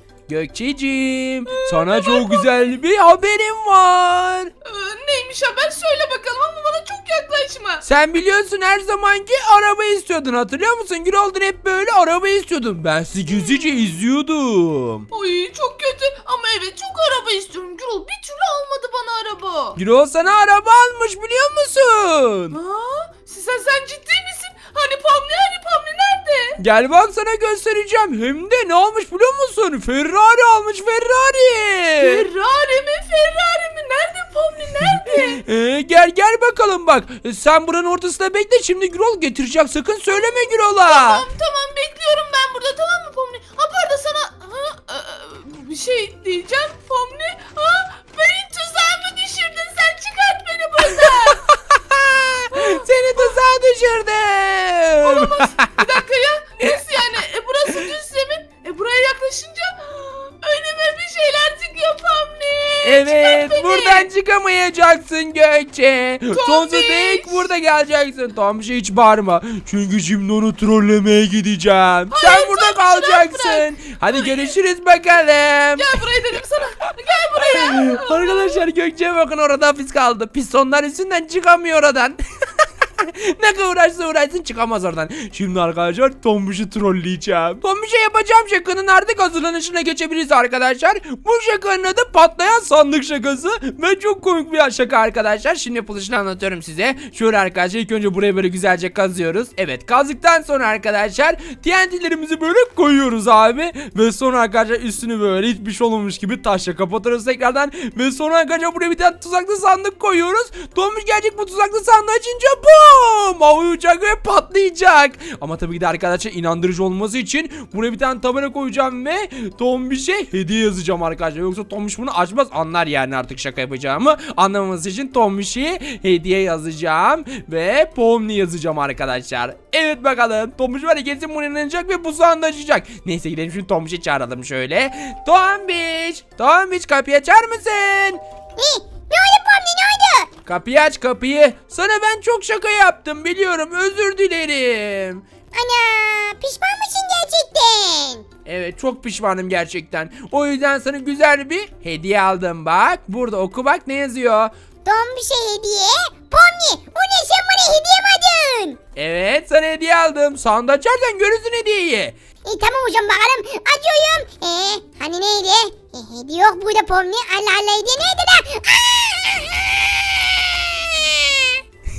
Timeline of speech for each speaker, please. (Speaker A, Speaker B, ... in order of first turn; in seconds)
Speaker A: 0.3-4.5, 7.8-15.1, 19.8-22.6, 26.6-32.2, 34.9-41.2, 50.9-55.8, 62.8-76.0, 77.3-138.2, 140.4-145.2, 148.4-154.5, 158.9-162.2
Speaker B: 1.5-2.5, 4.6-7.8, 13.3-13.8, 15.1-19.8, 22.5-26.6, 32.0-35.4, 40.1-51.5, 52.5-53.4, 55.0-64.1, 66.3-67.3, 72.1-74.5, 75.8-78.6
Speaker C: 138.6-140.3, 145.5-148.2, 154.8-158.8, 162.4-171.6